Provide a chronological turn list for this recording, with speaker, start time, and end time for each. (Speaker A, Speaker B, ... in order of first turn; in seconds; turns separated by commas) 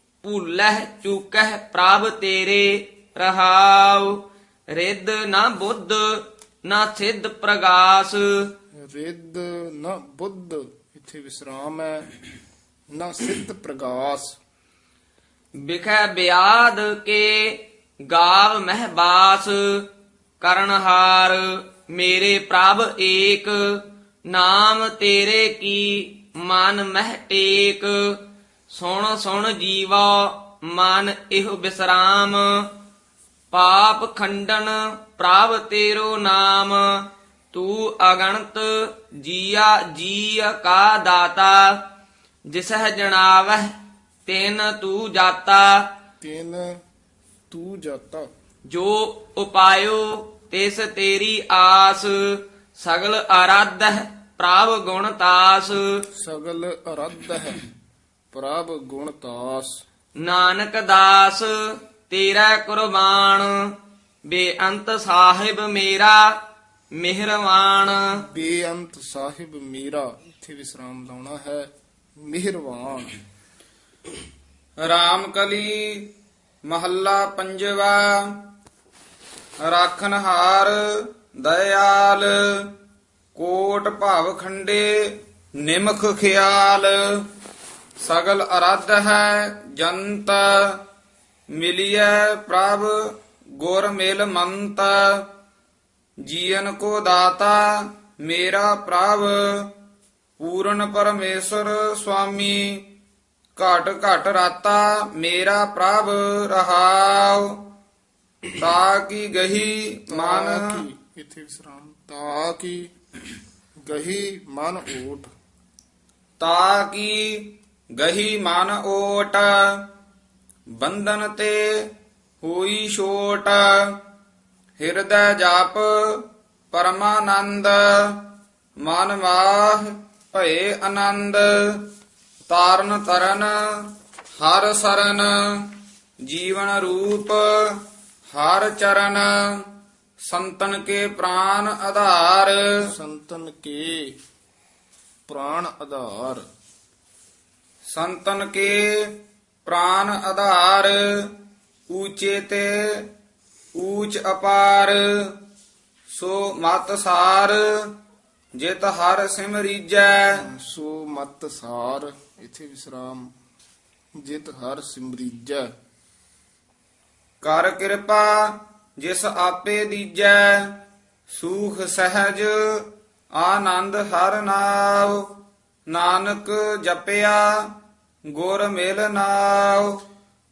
Speaker A: 0.2-4.1, Speaker A: 4.7-8.3, Speaker B: 8.9-12.1, Speaker B: 12.9-14.4, Speaker A: 15.6-19.9, Speaker A: 20.4-28.2, Speaker A: 28.7-32.6, Speaker A: 33.5-41.8, Speaker A: 42.5-43.7, Speaker A: 44.2-45.8, Speaker B: 46.2-46.8, Speaker B: 47.5-48.3, Speaker A: 48.7-55.8, Speaker B: 56.2-57.6, Speaker B: 58.3-59.8, Speaker A: 60.2-61.5, Speaker A: 62.0-63.6, Speaker A: 64.3-66.3, Speaker A: 67.0-68.0, Speaker B: 68.3-71.7, Speaker B: 72.3-73.2, Speaker C: 74.8-76.1, Speaker C: 76.7-78.4, Speaker C: 79.6-82.7, Speaker C: 83.3-87.0, Speaker C: 88.0-90.8, Speaker C: 91.5-92.9, Speaker C: 93.6-95.3, Speaker C: 96.2-99.7, Speaker C: 100.4-102.9, Speaker C: 103.5-107.5, Speaker C: 108.6-110.8, Speaker B: 110.1-112.9, Speaker B: 113.8-115.3, Speaker C: 116.4-119.8, Speaker C: 120.8-121.6, Speaker C: 122.4-124.0, Speaker C: 124.8-128.3, Speaker C: 128.8-131.9, Speaker C: 132.5-133.6, Speaker C: 134.4-135.7, Speaker C: 136.2-137.8, Speaker C: 138.3-139.3, Speaker C: 140.2-142.6, Speaker B: 142.8-144.1, Speaker B: 145.3-146.4, Speaker C: 147.9-151.3, Speaker C: 151.9-153.1, Speaker C: 153.8-155.4, Speaker C: 156.1-157.6, Speaker C: 158.6-160.4, Speaker B: 160.3-163.3, Speaker B: 164.2-165.7, Speaker C: 167.4-170.7, Speaker C: 171.3-172.9, Speaker C: 173.4-175.3, Speaker C: 175.9-177.5, Speaker C: 178.3-180.0